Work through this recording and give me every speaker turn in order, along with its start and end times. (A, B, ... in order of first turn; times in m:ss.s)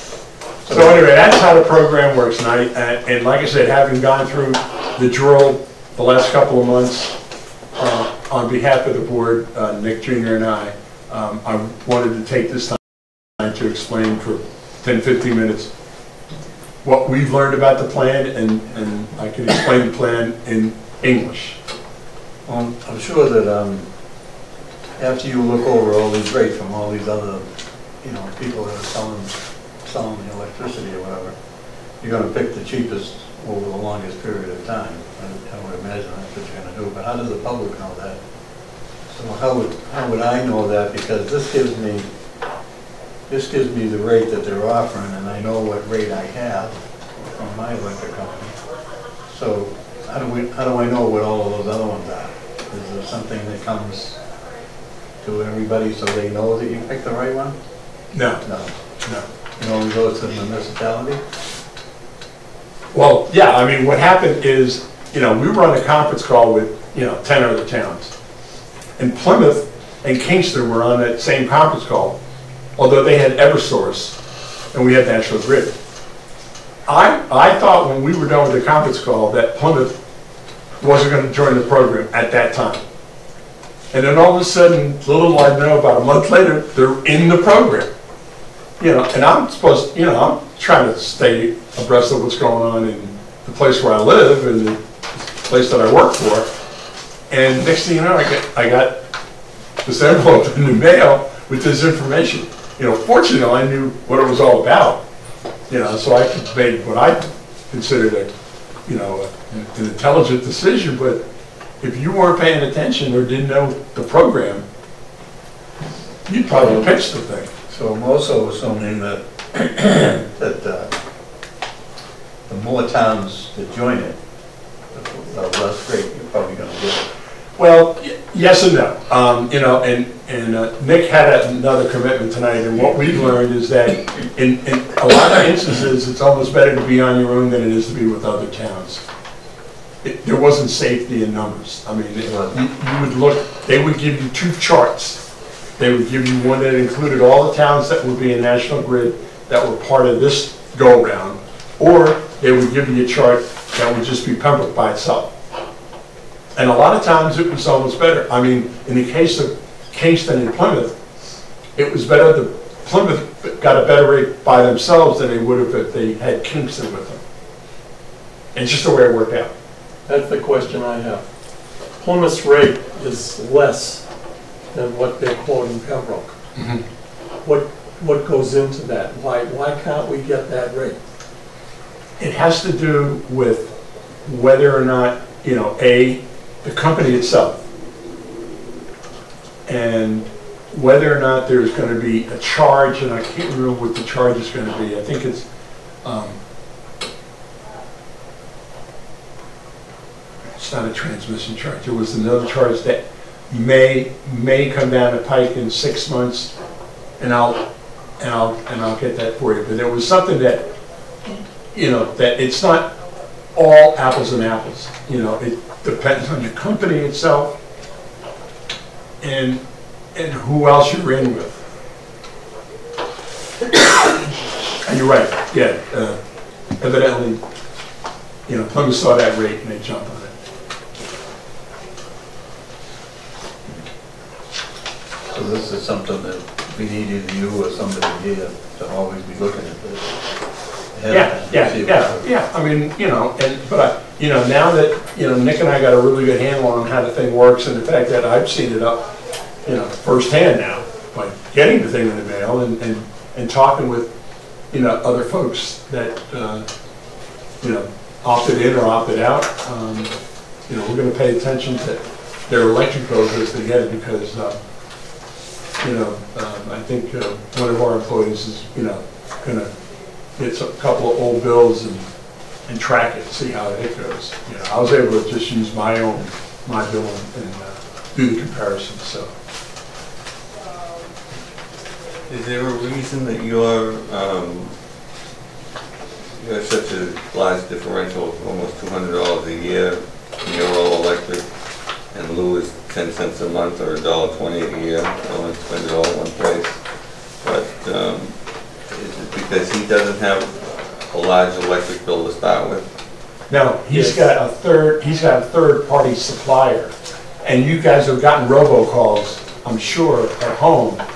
0:00.7-0:01.1 A
0:00.7-0:07.2 B
0:07.8-0:12.8 B
0:13.4-0:15.7 B
0:16.8-0:21.6 B
0:22.4-0:23.9 A
0:25.0-0:27.5 A
0:28.0-0:31.4 A
0:32.0-0:38.2 A
0:39.1-0:42.1 A
0:43.3-0:48.6 A
0:49.3-0:54.2 A
0:55.2-0:57.6 A
0:58.1-0:58.4 B
0:58.4-0:58.7 A
0:59.6-1:01.2 A
1:02.9-1:08.1 B
1:09.0-1:12.2 B
1:12.8-1:14.2 B
1:14.7-1:15.7 B
1:16.9-1:20.0 B
1:20.8-1:22.8 B
1:23.9-1:27.9 B
1:28.8-1:36.5 B
1:37.3-1:39.0 B
1:39.8-1:45.0 B
1:45.7-1:48.3 B
1:48.9-1:51.2 B
1:51.8-1:54.7 B
1:56.3-1:57.5 B
1:57.7-2:00.9 A
2:02.5-2:04.2 A
2:04.9-2:07.1 A
2:07.6-2:19.0 B
2:20.0-2:25.2 B
2:22.2-2:22.6 A
2:25.8-2:35.3 B
2:36.6-2:41.0 B
2:41.8-2:47.2 B
2:48.6-2:49.5 B
2:50.1-2:51.2 C
2:52.0-2:54.0 C
2:54.7-2:56.4 C
2:56.6-2:56.8 B
2:57.4-3:01.0 C
3:02.2-3:03.7 B
3:04.2-3:07.6 B
3:09.7-3:15.4 B
3:16.0-3:16.4 B
3:20.6-3:26.5 B
3:27.2-3:27.6 B
3:28.2-3:30.7 B
3:31.7-3:32.9 B
3:33.6-3:37.6 B
3:39.2-3:39.6 B
3:40.2-3:41.6 B
3:44.9-3:46.2 B
3:46.8-3:47.4 B
3:48.5-3:50.3 B
3:55.3-4:00.2 A
4:00.9-4:02.3 A
4:01.1-4:09.0 B
4:09.6-4:14.1 B
4:14.7-4:16.6 B
4:17.6-4:20.1 B
4:20.7-4:24.6 B
4:25.8-4:29.7 B
4:30.4-4:32.1 B
4:32.7-4:39.3 B
4:42.3-4:44.8 D
4:46.4-4:51.4 D
4:52.1-4:56.8 D
4:57.4-4:58.4 D
4:58.9-5:02.9 D
5:03.5-5:11.0 B